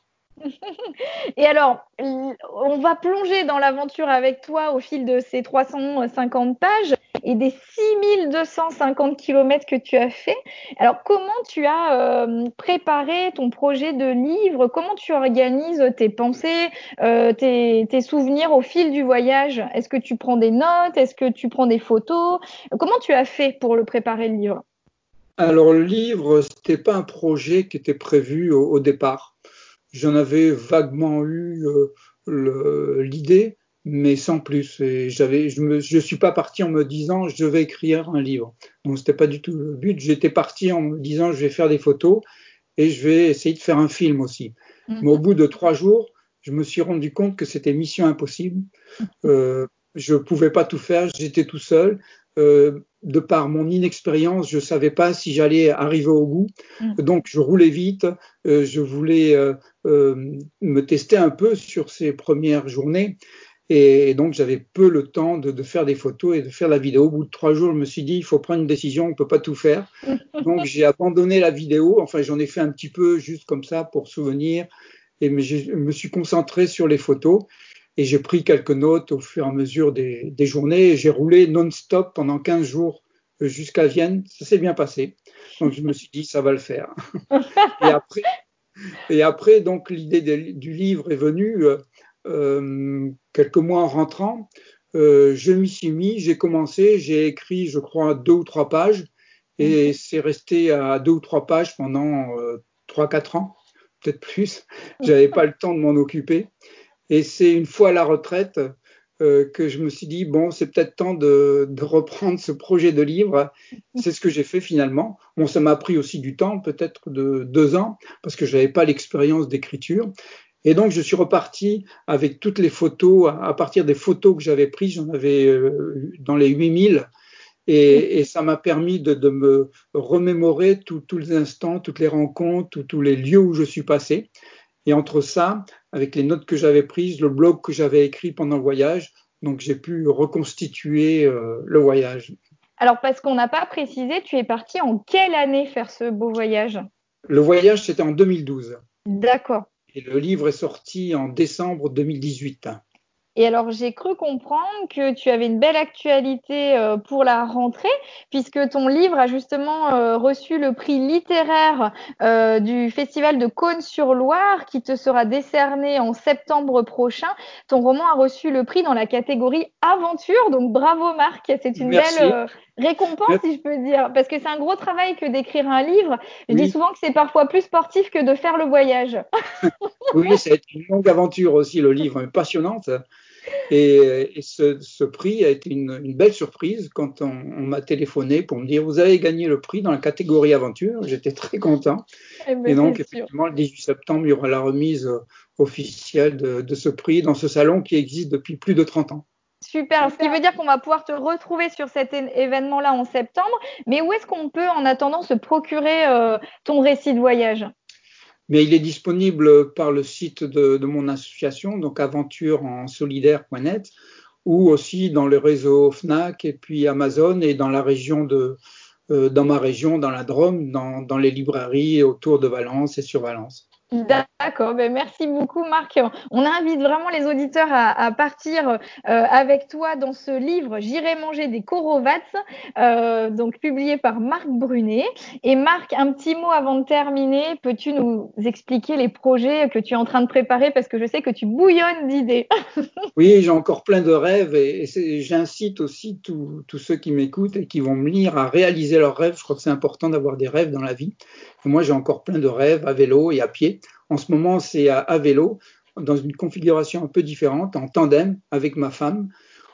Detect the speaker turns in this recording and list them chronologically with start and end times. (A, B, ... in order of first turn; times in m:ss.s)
0:00.5-0:24.6 A
0:25.4-0:29.3 B
0:29.9-0:42.2 B
0:42.8-0:48.6 B
0:49.2-1:14.7 B
1:15.2-1:26.9 B
1:27.3-1:27.7 A
1:27.8-1:28.3 B
1:29.1-1:46.5 B
1:47.1-1:48.6 B
1:49.2-2:00.1 B
2:00.6-2:07.1 B
2:07.7-2:14.3 B
2:14.8-2:22.3 B
2:22.8-2:26.8 A
2:27.3-2:28.8 B
2:29.1-2:29.7 A
2:29.9-2:32.8 B
2:33.4-2:59.2 A
2:51.8-2:52.4 B
2:56.5-2:56.7 B
3:00.1-3:03.0 B
3:03.7-3:12.0 B
3:12.4-3:13.3 A
3:12.6-3:19.2 B
3:19.6-3:27.7 A
3:28.5-3:33.9 B
3:34.4-3:43.6 B
3:43.9-4:02.5 A
4:03.2-4:19.3 B